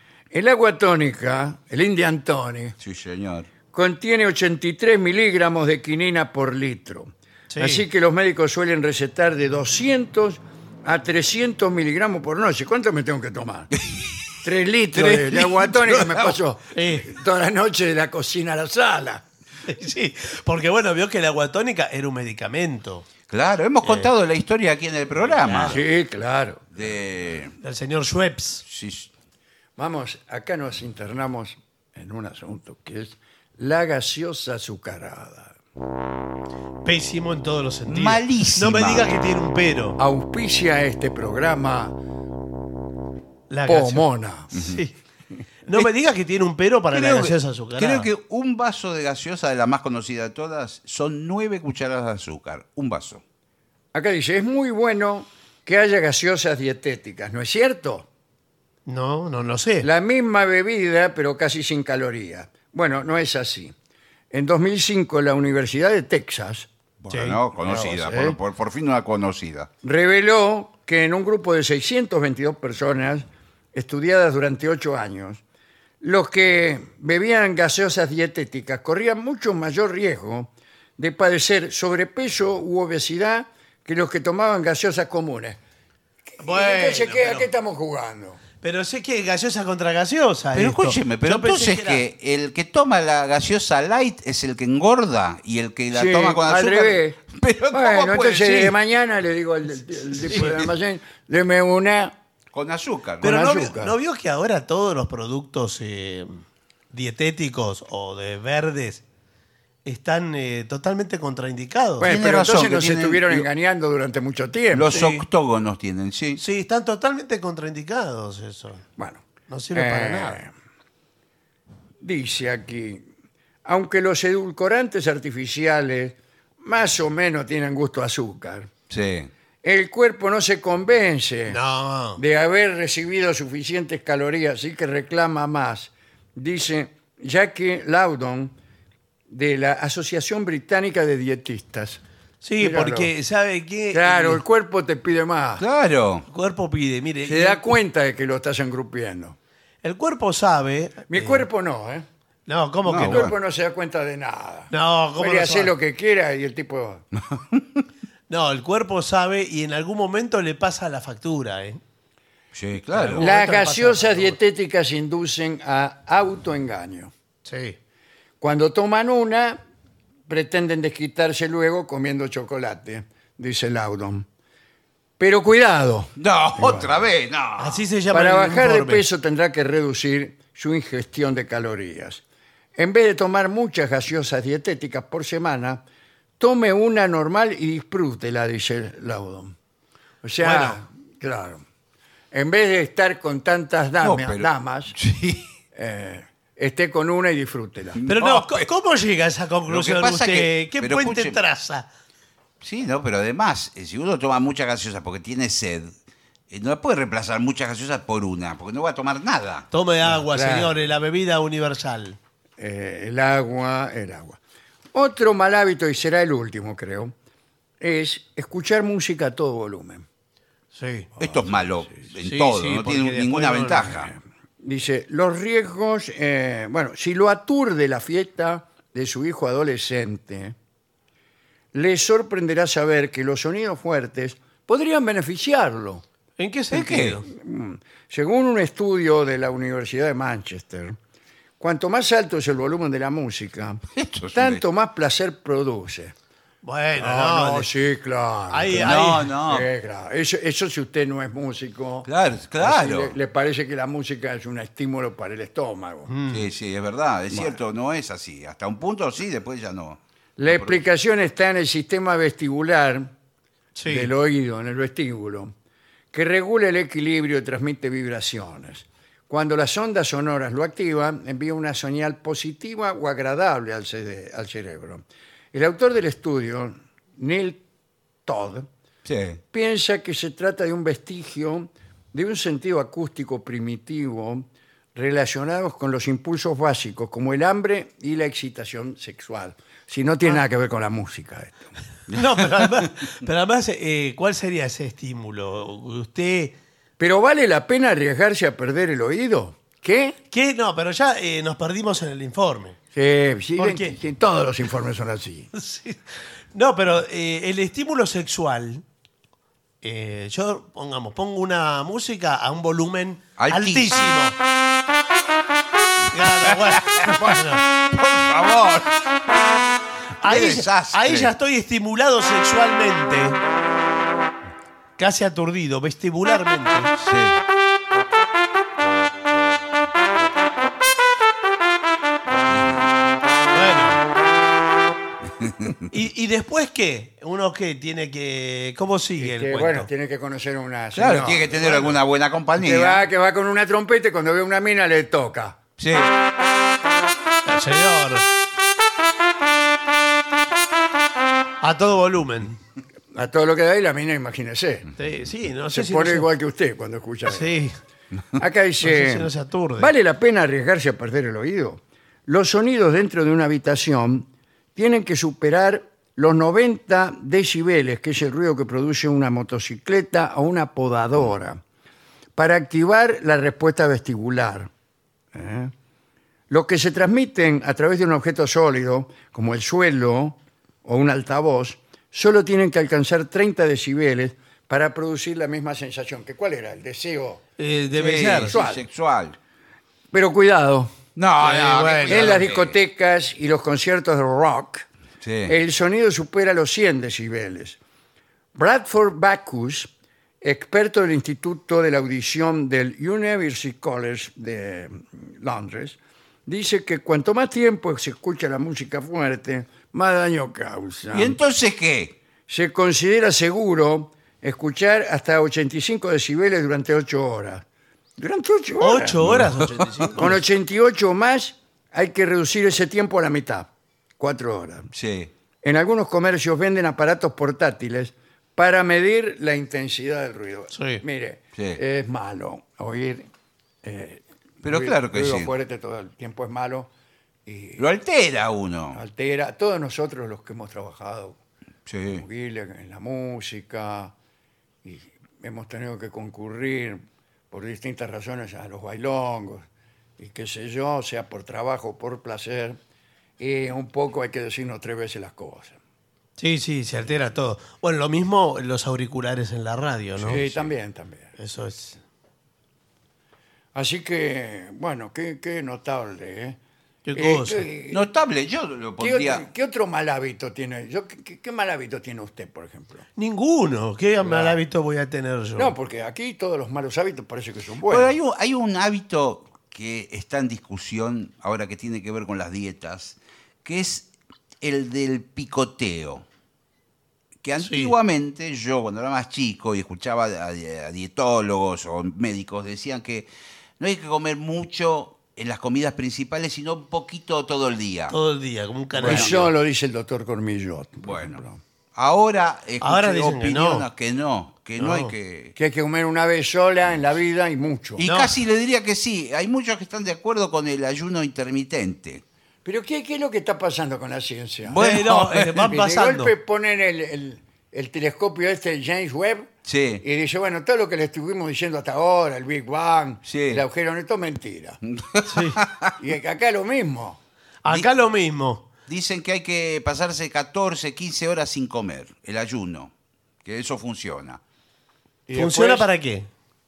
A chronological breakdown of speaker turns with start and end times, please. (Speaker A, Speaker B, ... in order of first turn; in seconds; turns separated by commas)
Speaker A: 0.3-2.8, Speaker B: 2.8-3.5, Speaker A: 3.7-13.7, Speaker C: 7.5-7.8, Speaker B: 13.8-14.1, Speaker A: 14.4-19.2, Speaker C: 15.0-16.0, Speaker C: 16.7-17.1, Speaker C: 19.6-23.1, Speaker B: 23.3-25.8, Speaker C: 25.2-25.8, Speaker A: 25.7-26.7, Speaker B: 26.7-27.6, Speaker C: 27.6-28.6, Speaker B: 28.6-29.1, Speaker A: 29.8-35.5, Speaker C: 36.8-40.0, Speaker B: 37.9-39.1, Speaker A: 40.0-42.0, Speaker C: 43.5-44.9, Speaker A: 43.6-44.5, Speaker B: 44.5-44.8, Speaker C: 45.6-48.1, Speaker B: 46.9-53.2, Speaker A: 53.9-58.1, Speaker C: 58.9-59.9, Speaker A: 59.8-63.7, Speaker A: 64.3-66.7, Speaker B: 67.0-69.7, Speaker C: 67.1-67.4, Speaker A: 67.6-68.4, Speaker A: 69.8-75.4, Speaker A: 76.0-85.6, Speaker A: 86.3-88.4, Speaker C: 86.4-87.5, Speaker C: 88.6-92.0, Speaker B: 90.5-98.7, Speaker A: 95.9-97.2, Speaker A: 97.7-102.2, Speaker C: 100.3-100.5, Speaker B: 102.5-103.3, Speaker A: 103.2-103.9, Speaker C: 103.2-106.4, Speaker C: 106.9-109.0, Speaker C: 109.8-112.1, Speaker A: 112.0-115.0, Speaker B: 112.0-113.5, Speaker B: 114.7-116.4, Speaker C: 114.9-115.2, Speaker C: 116.4-118.8, Speaker A: 119.0-120.5, Speaker C: 119.5-120.4, Speaker A: 122.0-123.1, Speaker A: 123.6-128.7, Speaker B: 128.9-129.3, Speaker A: 129.6-131.6, Speaker C: 131.5-132.2, Speaker A: 132.2-138.5, Speaker A: 139.3-142.0, Speaker C: 142.4-144.4, Speaker A: 142.6-143.1, Speaker A: 143.9-145.6, Speaker B: 145.6-146.2, Speaker C: 146.3-147.7, Speaker A: 147.2-149.4, Speaker C: 149.8-151.4, Speaker A: 151.1-152.1, Speaker C: 152.5-153.3, Speaker B: 152.8-153.3, Speaker A: 153.0-157.0, Speaker C: 154.7-155.7, Speaker B: 157.2-157.8, Speaker C: 158.3-161.8, Speaker B: 162.5-163.3, Speaker C: 162.9-164.4, Speaker A: 163.2-167.1, Speaker C: 167.4-167.8, Speaker A: 168.4-169.6, Speaker A: 170.3-174.2, Speaker A: 175.2-177.0, Speaker B: 176.2-177.9, Speaker C: 177.6-179.0, Speaker A: 178.1-182.2, Speaker A: 182.8-185.8, Speaker A: 186.4-189.5, Speaker A: 190.2-191.6, Speaker C: 190.4-190.8, Speaker A: 192.3-194.9, Speaker B: 194.0-195.5, Speaker A: 195.7-198.0, Speaker B: 197.9-198.7, Speaker C: 198.1-201.8, Speaker B: 199.7-201.4, Speaker B: 202.6-205.9, Speaker B: 206.5-209.7, Speaker C: 209.7-212.2, Speaker A: 210.1-210.8, Speaker A: 212.6-214.4, Speaker A: 214.9-217.1, Speaker A: 217.8-220.0, Speaker C: 220.7-221.1, Speaker A: 221.2-222.0, Speaker B: 221.2-224.1, Speaker C: 222.2-224.0, Speaker A: 224.6-230.5, Speaker A: 231.7-236.0, Speaker C: 236.4-237.2, Speaker B: 236.7-237.2, Speaker A: 237.2-241.0, Speaker A: 241.6-243.8, Speaker B: 243.9-244.6, Speaker A: 244.3-246.1, Speaker C: 246.6-247.7, Speaker A: 247.0-256.1, Speaker C: 248.5-249.3, Speaker B: 248.7-249.7, Speaker B: 252.0-253.1, Speaker C: 256.1-256.4, Speaker B: 256.3-260.8, Speaker A: 257.3-257.6, Speaker A: 260.4-263.1, Speaker C: 263.8-264.1, Speaker A: 263.9-265.5, Speaker A: 266.1-277.6, Speaker A: 278.2-278.7, Speaker B: 279.0-279.4, Speaker A: 279.5-291.7, Speaker C: 292.1-296.6, Speaker A: 297.0-300.2, Speaker C: 300.3-302.8, Speaker A: 302.9-305.5, Speaker C: 303.6-303.9, Speaker C: 305.5-306.0, Speaker C: 306.5-308.8, Speaker C: 309.8-314.4, Speaker B: 313.4-314.2, Speaker C: 316.1-317.6, Speaker B: 316.2-319.0, Speaker C: 320.2-323.4, Speaker B: 320.2-321.3, Speaker C: 325.0-326.9, Speaker B: 327.0-327.4, Speaker B: 332.4-332.9, Speaker C: 333.5-334.0, Speaker B: 335.4-335.8, Speaker C: 335.9-339.9, Speaker A: 339.2-341.9, Speaker B: 340.9-343.0, Speaker A: 342.6-345.6, Speaker B: 345.8-346.1, Speaker C: 347.4-348.2, Speaker C: 351.6-352.6, Speaker A: 353.1-354.9, Speaker C: 355.0-356.3, Speaker A: 355.7-357.5, Speaker C: 357.3-357.7, Speaker A: 358.4-371.6, Speaker C: 358.8-359.9, Speaker A: 372.4-374.7, Speaker A: 375.3-375.7, Speaker A: 376.5-387.4, Speaker C: 387.6-388.5, Speaker B: 387.9-389.4, Speaker A: 388.4-388.8, Speaker A: 390.1-390.9, Speaker B: 391.1-392.8, Speaker C: 391.4-392.4, Speaker A: 392.1-394.9, Speaker B: 395.2-395.5, Speaker A: 395.4-397.8, Speaker A: 398.5-411.4, Speaker B: 411.1-412.1, Speaker A: 412.5-417.6, Speaker A: 418.2-419.3, Speaker C: 418.8-420.4, Speaker B: 419.2-420.1, Speaker A: 420.1-424.9, Speaker B: 424.9-425.3, Speaker A: 425.6-433.3, Speaker C: 430.7-431.0, Speaker A: 433.8-436.9, Speaker B: 434.6-435.5, Speaker A: 437.4-437.8, Speaker B: 437.8-439.0, Speaker A: 438.9-441.4, Speaker B: 441.9-442.2, Speaker A: 442.1-444.1, Speaker A: 444.8-449.6, Speaker A: 450.2-452.8, Speaker A: 453.4-455.8, Speaker C: 456.4-460.5, Speaker A: 460.2-461.3, Speaker C: 461.4-462.0, Speaker A: 463.7-466.6, Speaker C: 467.1-467.6, Speaker A: 467.1-468.1, Speaker B: 467.9-469.4, Speaker A: 469.0-473.0, Speaker C: 473.1-475.7, Speaker A: 474.2-474.6, Speaker A: 475.6-478.1, Speaker B: 477.9-484.1, Speaker B: 484.6-486.2, Speaker B: 487.4-498.1, Speaker C: 487.6-487.9, Speaker C: 498.1-499.5, Speaker A: 499.0-501.6, Speaker B: 499.0-499.4, Speaker B: 501.0-501.4, Speaker B: 501.9-505.5, Speaker C: 502.8-503.9, Speaker C: 504.8-505.1, Speaker A: 505.6-508.0, Speaker B: 508.0-512.2, Speaker C: 508.0-508.4, Speaker A: 512.6-514.8, Speaker B: 514.7-515.6, Speaker C: 514.8-516.3, Speaker A: 515.5-519.5, Speaker B: 519.6-520.0, Speaker A: 520.0-524.8, Speaker B: 523.2-523.6, Speaker B: 524.8-525.9, Speaker C: 525.3-525.6, Speaker A: 526.0-527.2, Speaker C: 527.6-528.6, Speaker B: 528.9-532.9, Speaker B: 533.4-534.4, Speaker A: 535.3-535.9, Speaker C: 535.3-536.3